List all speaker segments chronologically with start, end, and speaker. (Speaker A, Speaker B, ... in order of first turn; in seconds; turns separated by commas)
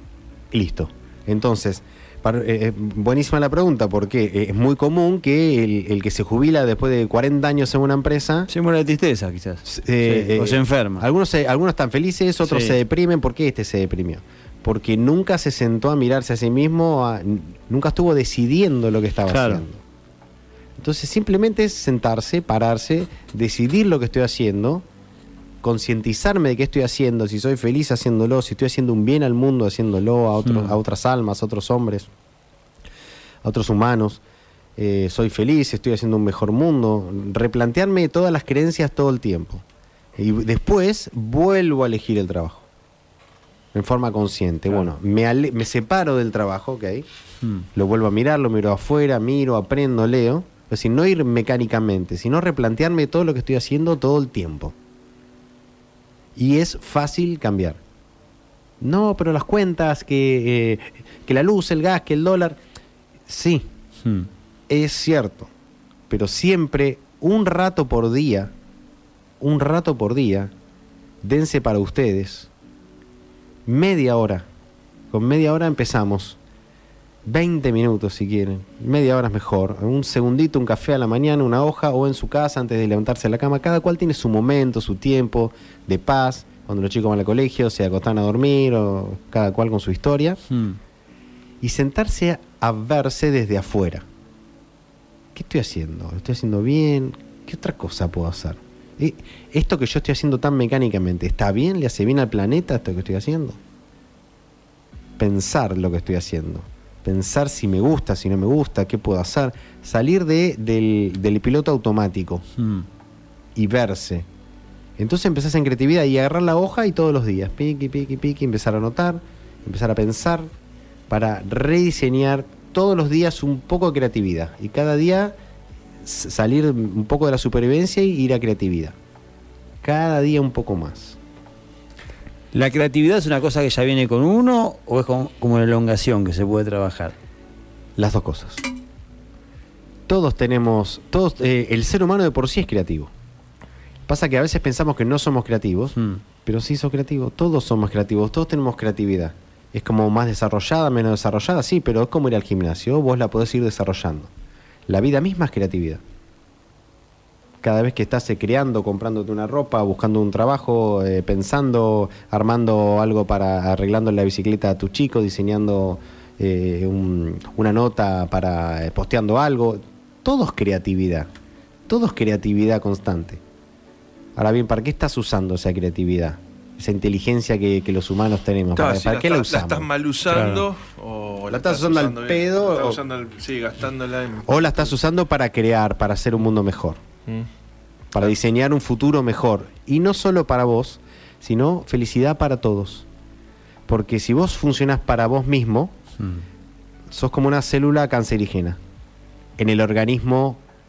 Speaker A: 0.5-8.5, Speaker B: 8.5-11.1, Speaker A: 9.7-19.8, Speaker B: 12.4-12.8, Speaker B: 19.3-19.6, Speaker A: 20.8-24.9, Speaker A: 25.6-32.1, Speaker B: 30.4-30.8, Speaker A: 33.4-34.2, Speaker A: 34.8-39.6, Speaker A: 40.2-42.7, Speaker A: 43.7-47.1, Speaker A: 47.8-54.8, Speaker A: 56.4-57.8, Speaker A: 58.8-62.6, Speaker A: 63.3-63.7, Speaker B: 64.0-64.3, Speaker A: 64.7-65.5, Speaker A: 66.1-68.5, Speaker A: 69.4-70.5, Speaker A: 71.2-72.5, Speaker A: 73.7-74.5, Speaker A: 75.1-76.4, Speaker A: 77.2-90.4, Speaker B: 90.5-90.8, Speaker A: 91.6-94.1, Speaker A: 95.3-103.6, Speaker A: 105.2-112.5, Speaker B: 112.6-112.9, Speaker A: 113.5-114.3, Speaker A: 115.0-120.5, Speaker A: 121.1-125.4, Speaker A: 126.0-129.0, Speaker A: 129.8-131.2, Speaker B: 132.5-137.2, Speaker A: 138.0-138.7, Speaker A: 140.1-143.1, Speaker A: 144.1-154.3, Speaker B: 146.0-146.2, Speaker A: 154.9-156.0, Speaker A: 157.6-171.3, Speaker A: 171.9-173.4, Speaker A: 174.4-179.9, Speaker C: 178.8-184.9, Speaker B: 180.3-180.7, Speaker A: 181.5-183.0, Speaker A: 184.4-187.0, Speaker A: 188.1-193.1, Speaker A: 193.9-195.9, Speaker B: 196.2-196.4, Speaker A: 197.1-198.8, Speaker A: 199.6-200.6